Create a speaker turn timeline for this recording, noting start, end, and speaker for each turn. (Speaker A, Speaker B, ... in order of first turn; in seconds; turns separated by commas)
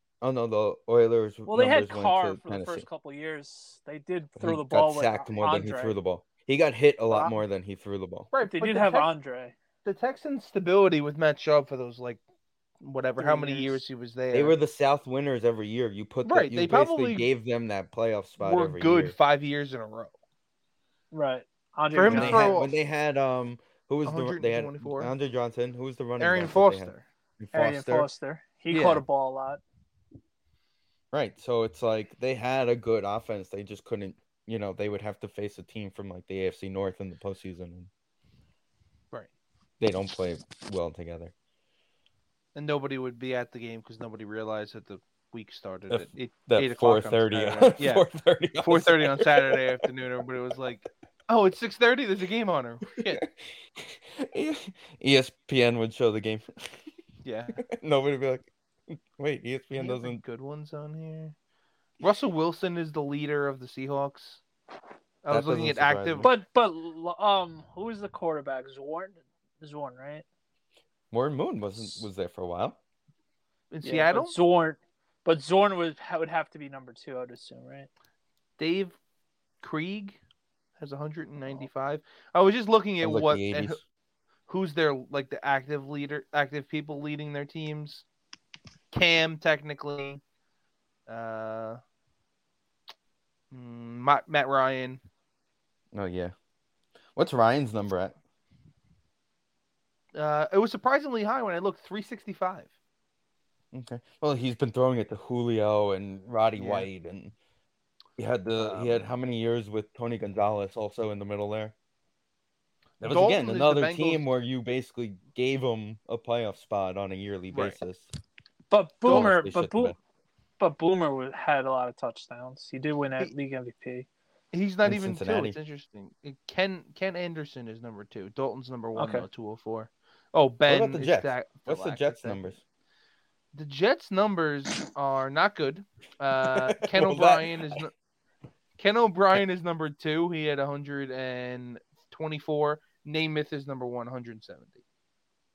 Speaker A: 0.2-2.9, Speaker B: 1.5-6.0, Speaker A: 4.4-8.3, Speaker C: 8.3-9.1, Speaker B: 8.4-9.5, Speaker C: 9.8-12.2, Speaker C: 12.8-14.6, Speaker B: 13.2-13.8, Speaker A: 14.3-19.2, Speaker C: 16.2-17.3, Speaker C: 18.4-20.2, Speaker B: 21.1-22.6, Speaker C: 21.9-22.7, Speaker A: 22.1-28.1, Speaker C: 24.1-25.1, Speaker C: 26.2-27.0, Speaker B: 27.5-29.6, Speaker C: 28.7-29.0, Speaker A: 31.1-37.9, Speaker A: 39.8-41.3, Speaker C: 42.5-48.1, Speaker A: 45.9-49.8, Speaker C: 48.6-53.2, Speaker A: 53.8-56.9, Speaker C: 57.2-57.6, Speaker A: 57.7-60.2, Speaker C: 59.8-61.4, Speaker C: 62.0-64.4, Speaker C: 65.2-66.3, Speaker A: 65.3-66.3, Speaker B: 66.2-70.2, Speaker A: 71.1-72.8, Speaker C: 73.7-74.4, Speaker B: 73.8-77.9, Speaker C: 78.6-79.0, Speaker C: 79.6-80.2, Speaker C: 80.8-83.8, Speaker A: 83.0-83.8, Speaker C: 84.5-88.0, Speaker C: 88.9-90.2, Speaker C: 91.1-91.8, Speaker C: 93.5-95.0, Speaker A: 95.9-96.3, Speaker A: 97.2-98.2, Speaker C: 100.1-102.7, Speaker A: 103.7-107.3, Speaker C: 106.6-106.9, Speaker A: 108.2-111.7, Speaker C: 108.6-109.1, Speaker C: 113.0-114.2, Speaker A: 113.0-118.1, Speaker C: 117.5-117.8, Speaker B: 118.7-120.0, Speaker C: 119.0-119.3, Speaker A: 119.1-120.0, Speaker B: 120.6-124.1, Speaker C: 124.5-132.4, Speaker A: 124.8-125.6, Speaker B: 129.0-129.2, Speaker A: 130.7-132.6, Speaker C: 133.5-137.9, Speaker A: 136.5-137.8, Speaker C: 138.8-144.8